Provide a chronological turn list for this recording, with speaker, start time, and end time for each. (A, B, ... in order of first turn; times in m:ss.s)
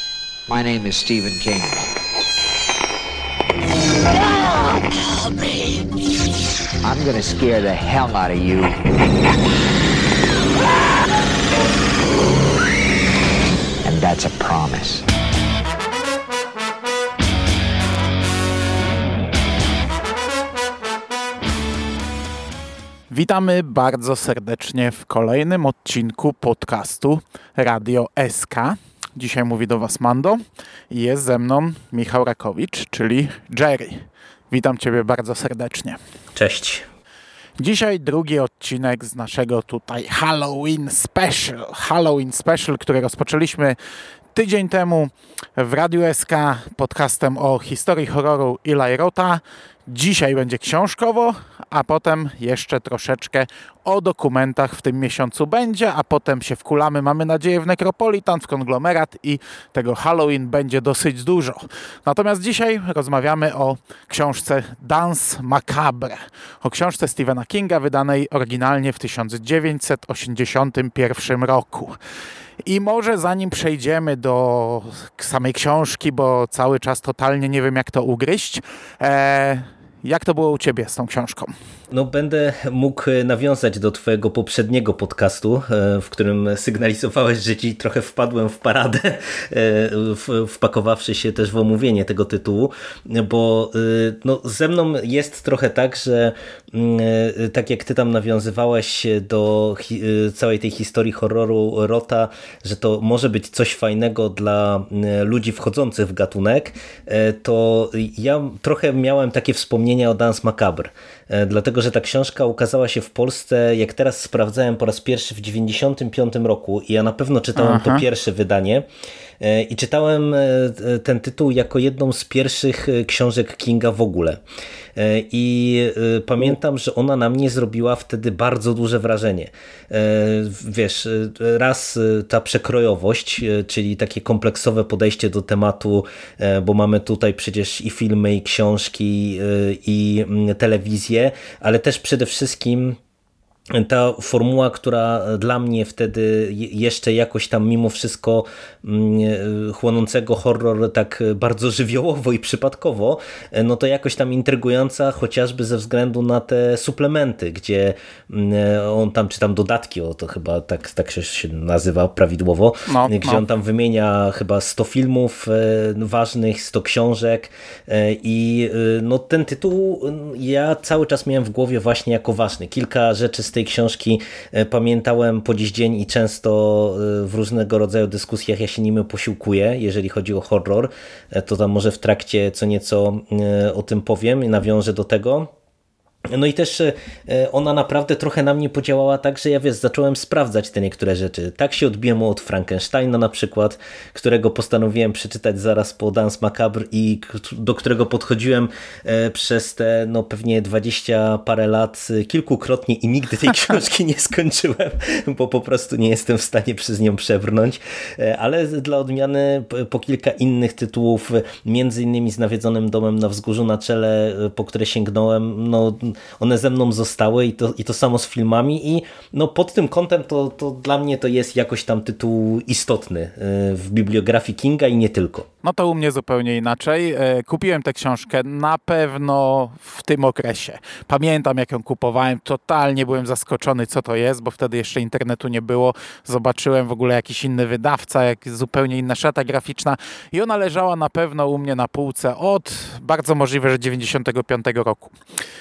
0:00.5-0:01.9 A
0:06.8-0:08.8 A
0:13.8-0:15.0 A
0:23.1-0:36.0 B
0:36.4-0:36.9 C
0:37.6-0:43.8 B
0:44.4-1:12.0 B
1:12.6-1:21.5 B
1:21.9-1:58.9 C
1:57.6-1:58.0 B
1:59.4-2:04.4 C
2:05.0-2:23.0 C
2:23.7-3:05.5 C
2:42.9-2:43.4 B
3:06.3-3:45.5 C
3:45.6-4:05.1 B